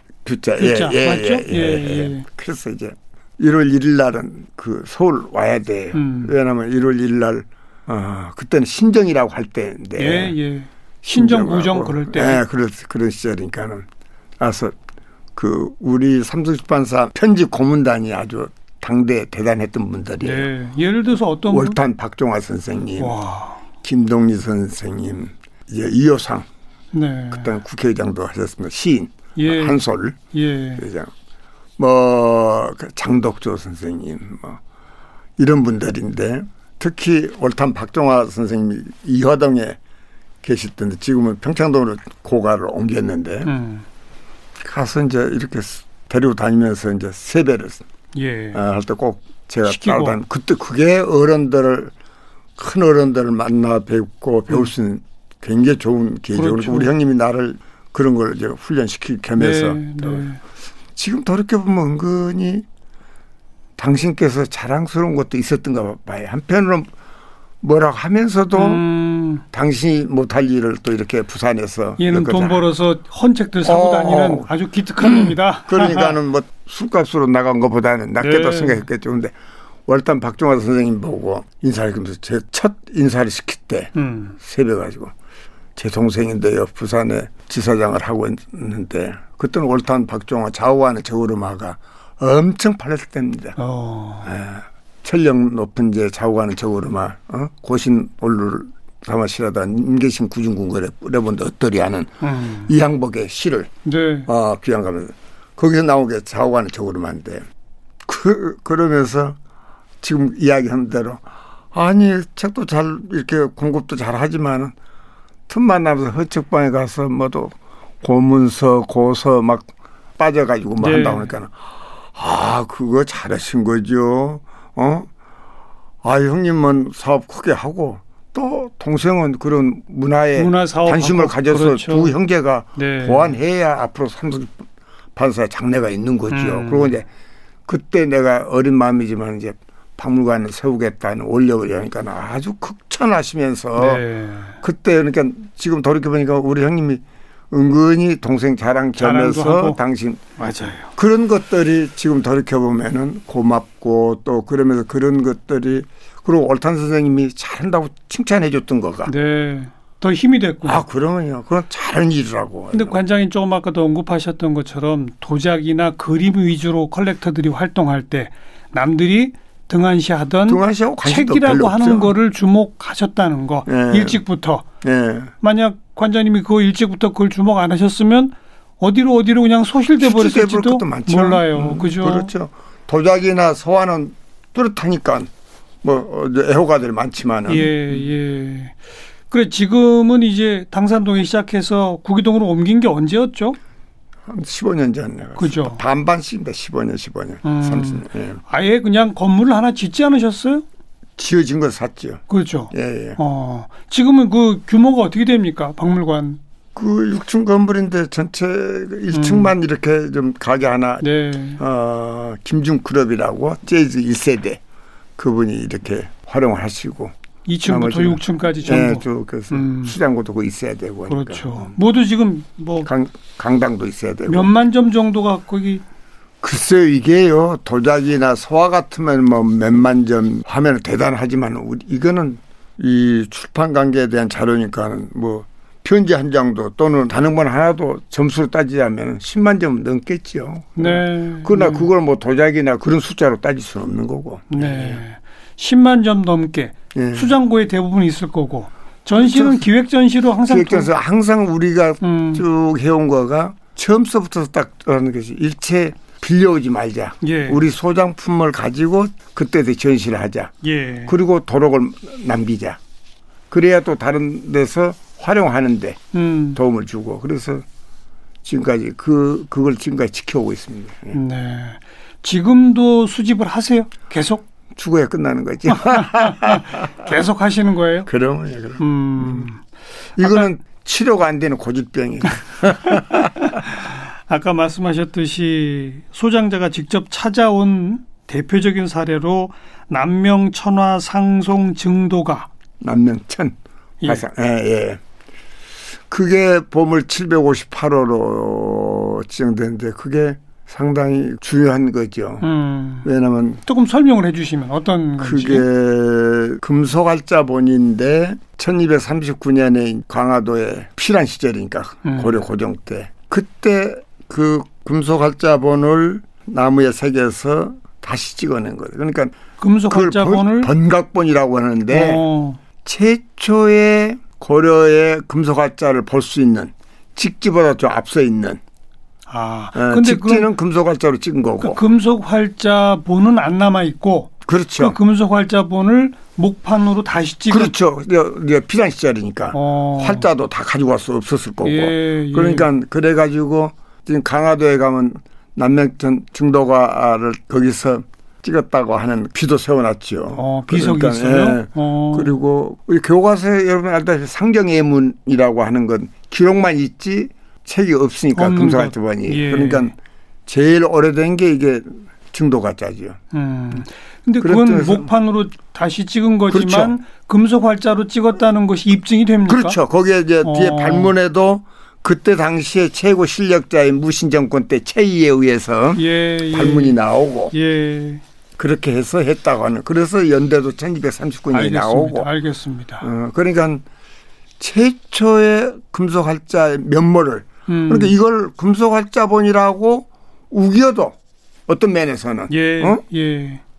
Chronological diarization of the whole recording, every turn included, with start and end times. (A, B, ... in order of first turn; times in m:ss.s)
0:00.2-0:10.4 A
0:00.6-0:02.3 B
0:06.0-0:06.3 B
0:10.0-0:12.4 B
0:11.1-0:13.9 A
0:14.4-0:14.8 A
0:15.4-0:20.5 A
0:20.2-0:21.8 B
0:21.5-0:23.2 A
0:23.0-0:23.6 B
0:23.8-0:26.5 A
0:26.9-0:27.5 B
0:27.3-0:30.2 A
0:29.4-0:30.8 B
0:30.8-0:31.1 A
0:31.8-0:34.6 A
0:35.4-0:39.8 A
0:40.4-0:43.5 A
0:43.4-0:43.8 B
0:44.6-0:47.8 A
0:48.2-0:48.6 B
0:48.5-0:51.9 A
0:49.6-0:50.2 B
0:52.6-1:00.3 A
0:56.4-0:56.9 B
0:59.4-1:00.4 B
1:01.0-1:02.7 A
1:03.8-1:06.9 A
1:07.6-1:08.8 A
1:08.5-1:09.4 B
1:09.5-1:12.7 A
1:12.0-1:16.2 B
1:13.6-1:14.5 A
1:15.0-1:19.4 A
1:18.2-1:18.9 B
1:19.9-1:25.1 A
1:24.0-1:24.4 B
1:25.8-1:33.6 A
1:33.6-1:34.3 B
1:34.2-1:43.7 A
1:42.2-1:42.7 B
1:43.8-1:44.3 B
1:44.3-1:47.5 A
1:48.0-1:49.4 A
1:50.0-1:54.7 A
1:55.5-2:05.1 A
2:00.8-2:01.3 B
2:06.0-2:17.1 A
2:10.4-2:12.1 B
2:12.8-2:13.4 B
2:16.3-2:17.0 B
2:17.7-2:24.0 A
2:23.8-2:24.6 B
2:24.6-2:39.1 A
2:29.0-2:29.8 B
2:30.4-2:30.9 B
2:39.1-2:40.8 B
2:40.6-2:43.0 A
2:42.7-2:54.6 B
2:50.5-2:52.2 A
2:53.7-2:54.2 A
2:54.8-2:55.3 A
2:55.4-3:02.3 B
3:00.0-3:05.3 A
3:05.8-3:08.0 A
3:07.5-3:08.8 B
3:09.3-3:13.6 B
3:14.3-3:18.4 A
3:15.4-3:15.8 B
3:17.4-3:20.6 B
3:21.2-3:23.2 A
3:22.3-3:26.4 B
3:26.8-3:34.6 A
3:29.1-3:29.5 B
3:31.0-3:31.6 B
3:35.2-3:37.1 A
3:37.5-3:40.0 B
3:37.6-3:41.7 A
3:41.1-3:42.9 B
3:42.8-3:44.5 A
3:44.3-3:45.8 B
3:46.4-4:05.0 A
4:00.8-4:01.9 B
4:04.5-4:10.9 B
4:06.9-4:07.3 A
4:09.2-4:09.7 A
4:10.5-4:20.5 A
4:12.0-4:12.4 B
4:17.2-4:17.6 B
4:20.6-4:21.2 B
4:21.1-4:22.8 A
4:23.5-4:26.0 A
4:26.1-4:26.6 B
4:26.5-4:27.6 A
4:28.4-4:31.2 A
4:31.1-4:34.4 B
4:34.8-4:37.1 A
4:35.7-4:38.1 B
4:38.1-4:39.5 A
4:38.8-4:39.6 B
4:40.2-4:43.6 A
4:40.2-4:40.5 B
4:43.5-4:52.5 B
4:52.8-4:55.0 A
4:56.1-5:02.5 A
5:02.4-5:03.1 B
5:03.0-5:03.6 A
5:03.7-5:05.6 B
5:05.2-5:19.3 A
5:12.0-5:12.4 B
5:19.6-5:20.7 B
5:19.9-5:22.2 A
5:21.9-5:22.6 B
5:22.8-5:28.6 A
5:29.3-5:30.5 B
5:29.8-5:31.8 A
5:31.6-5:37.7 B
5:34.5-5:35.0 A
5:37.5-5:59.9 A
5:39.5-5:40.3 B
5:41.6-5:42.7 B
5:50.4-5:52.3 B
5:58.4-5:59.9 B
6:00.5-6:03.2 A
6:03.3-6:09.8 B
6:04.4-6:05.1 A
6:06.5-6:06.9 A
6:09.5-6:17.5 A
6:10.4-6:11.1 B
6:16.0-6:17.0 B
6:17.5-6:18.2 B
6:18.6-6:22.3 A
6:21.5-6:23.1 B
6:23.0-6:23.8 A
6:24.6-6:33.0 A
6:27.7-6:28.1 B
6:32.5-6:33.6 B